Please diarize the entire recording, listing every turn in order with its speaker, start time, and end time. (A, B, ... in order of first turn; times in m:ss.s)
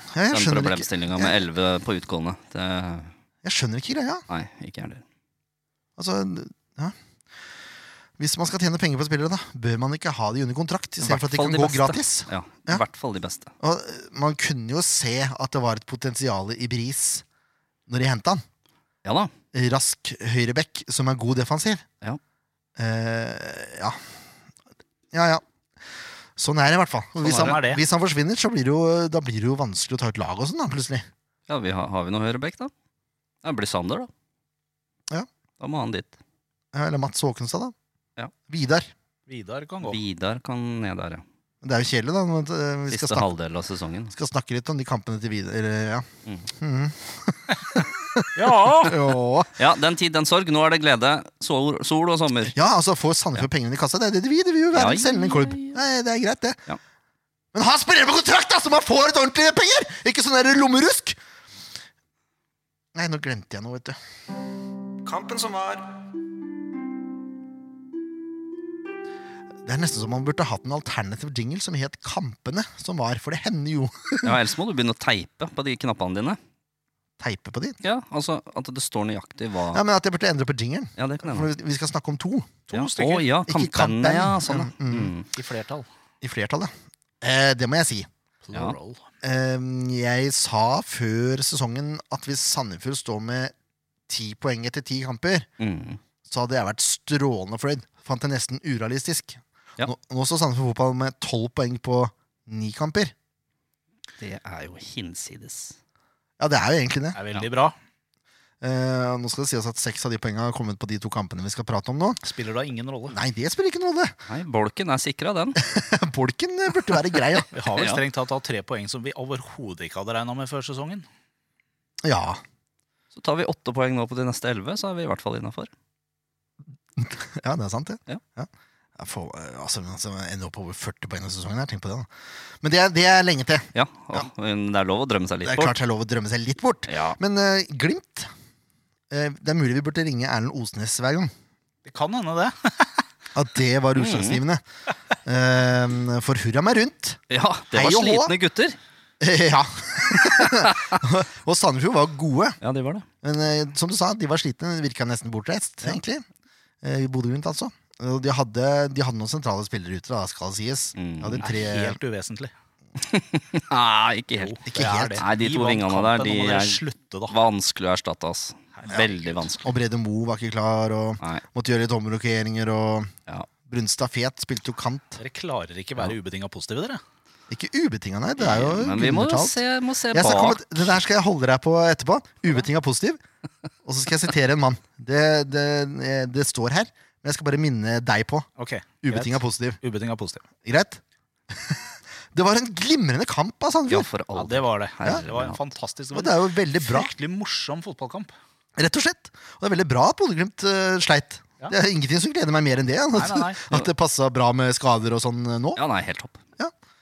0:00.1-0:01.4 A
0:00.3-0:03.1 B
0:03.4-0:04.2 A
0:04.3-0:05.0 B
0:06.0-0:06.9 A
0:08.2-0:12.8 A
0:11.0-0:13.5 B
0:13.6-0:17.2 A
0:17.9-0:18.4 A
0:19.0-0:19.3 B
0:19.5-0:21.8 A
0:22.8-0:24.0 A
0:25.1-0:25.4 A
0:26.4-0:31.0 A
0:27.2-0:27.8 C
0:31.5-0:32.7 B
0:33.4-0:34.1 B
0:35.6-0:36.2 B
0:36.7-0:37.7 A
0:38.5-0:38.9 A
0:39.3-0:40.0 C
0:39.8-0:41.2 B
0:41.6-0:43.3 A
0:42.9-0:44.1 B
0:44.1-0:49.5 A
0:48.3-0:49.0 C
0:49.6-0:52.5 B
0:52.5-0:56.6 A
0:54.7-0:55.8 B
0:57.5-1:01.2 A
1:02.9-1:04.0 A
1:05.0-1:05.9 A
1:09.6-1:14.4 A
1:14.2-1:16.4 B
1:17.2-1:17.8 A
1:17.8-1:19.8 B
1:19.7-1:22.6 A
1:21.0-1:21.5 B
1:22.7-1:23.2 C
1:22.7-1:25.3 B
1:23.5-1:25.1 A
1:25.3-1:25.9 C
1:26.2-1:28.1 A
1:28.4-1:29.0 C
1:29.2-1:33.5 A
1:34.1-1:35.5 A
1:35.6-1:36.0 B
1:36.2-1:43.1 A
1:44.2-1:45.7 B
1:46.4-1:47.2 A
1:47.1-1:47.8 C
1:48.6-1:52.2 A
1:52.2-1:53.2 C
1:53.1-1:54.1 A
1:54.3-1:55.6 B
1:55.6-1:57.5 A
1:57.5-2:01.0 C
1:57.5-1:58.0 B
2:02.0-2:02.4 A
2:03.1-2:05.7 B
2:07.0-2:12.1 A
2:12.6-2:14.2 A
2:13.7-2:15.7 B
2:15.4-2:18.3 A
2:16.9-2:17.2 B
2:19.1-2:21.3 A
2:21.8-2:23.1 C
2:23.3-2:24.6 A
2:24.0-2:24.4 B
2:25.2-2:27.2 A
2:27.3-2:28.8 B
2:27.7-2:28.4 A
2:29.2-2:32.6 A
2:30.2-2:31.0 B
2:32.6-2:33.0 B
2:33.2-2:36.2 A
2:36.8-2:42.0 A
2:41.0-2:41.4 B
2:41.4-2:42.5 C
2:43.0-2:44.6 B
2:44.4-2:47.4 C
2:44.7-2:45.2 A
2:45.2-2:49.7 B
2:48.7-2:49.4 C
2:49.6-2:53.1 A
2:53.6-2:55.2 A
2:55.2-2:57.0 C
2:57.5-2:59.6 A
2:58.4-3:00.6 B
3:00.1-3:03.2 A
3:03.8-3:08.5 A
3:08.6-3:10.4 C
3:09.0-3:09.8 A
3:10.6-3:14.1 A
3:13.9-3:15.6 B
3:14.3-3:18.3 C
3:16.1-3:17.1 A
3:18.8-3:25.8 A
3:23.1-3:23.6 C
3:25.8-3:26.4 B